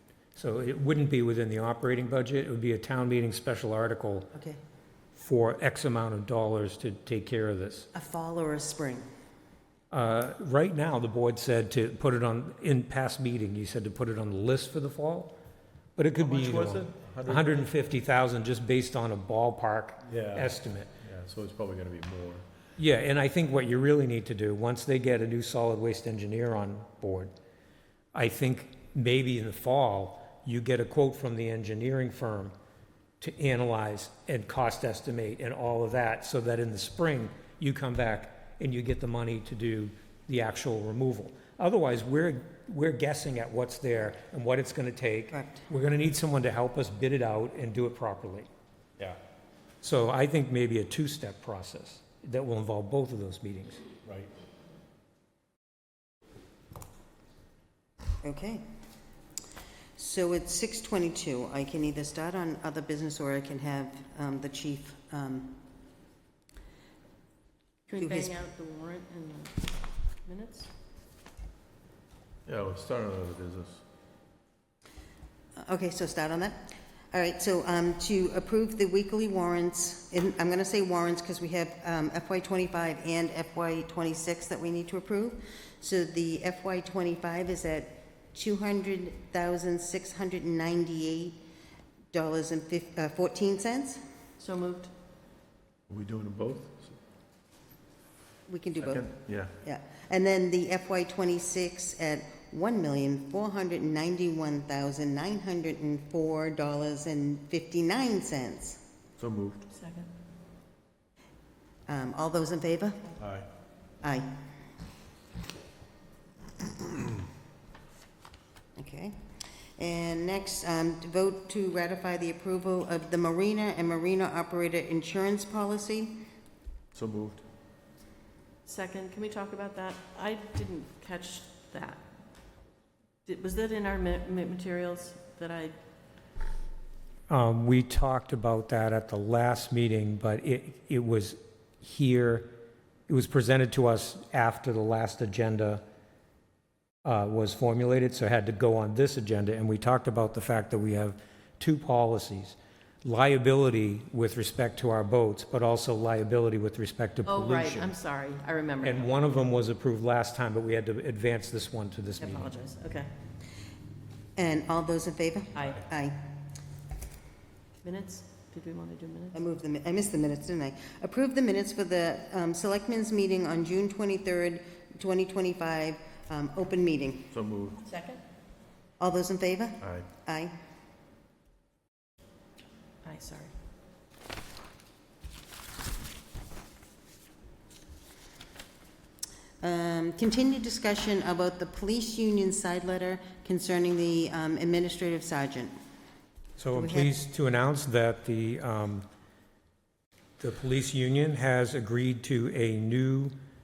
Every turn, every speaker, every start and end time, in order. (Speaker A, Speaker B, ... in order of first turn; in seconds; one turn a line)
Speaker A: 0.3-4.3
Speaker B: 4.3-4.6
Speaker A: 5.2-7.9
Speaker B: 7.9-9.1
Speaker A: 9.9-15.3
Speaker A: 16.0-20.9
Speaker C: 16.2-17.7
Speaker C: 20.1-22.4
Speaker A: 22.8-27.3
Speaker A: 28.1-32.5
Speaker A: 33.2-48.5
Speaker B: 45.3-45.6
Speaker A: 49.8-53.8
Speaker C: 54.0-54.3
Speaker B: 58.2-58.6
Speaker B: 60.0-65.6
Speaker D: 67.9-69.7
Speaker B: 68.0-68.3
Speaker D: 70.2-70.7
Speaker C: 72.5-73.8
Speaker B: 75.6-91.4
Speaker B: 92.1-94.0
Speaker D: 94.4-94.9
Speaker C: 95.9-96.9
Speaker B: 98.5-108.8
Speaker C: 98.8-99.5
Speaker C: 109.2-109.7
Speaker D: 109.7-110.1
Speaker B: 111.9-113.2
Speaker C: 113.2-113.5
Speaker B: 114.0-114.4
Speaker B: 118.8-119.2
Speaker B: 119.8-126.2
Speaker C: 126.9-127.4
Speaker D: 128.7-132.0
Speaker D: 133.2-135.8
Speaker A: 137.3-142.5
Speaker A: 143.1-145.8
Speaker A: 147.0-157.9
Speaker D: 157.2-159.1
Speaker A: 158.8-162.5
Speaker D: 162.2-163.1
Speaker B: 164.4-166.2
Speaker D: 165.5-165.8
Speaker D: 167.8-169.4
Speaker B: 169.3-177.3
Speaker C: 177.3-177.8
Speaker D: 177.8-178.2
Speaker B: 179.0-180.5
Speaker C: 179.8-180.1
Speaker D: 183.0-183.5
Speaker B: 189.6-195.7
Speaker A: 196.6-199.1
Speaker B: 196.7-197.1
Speaker A: 200.4-203.3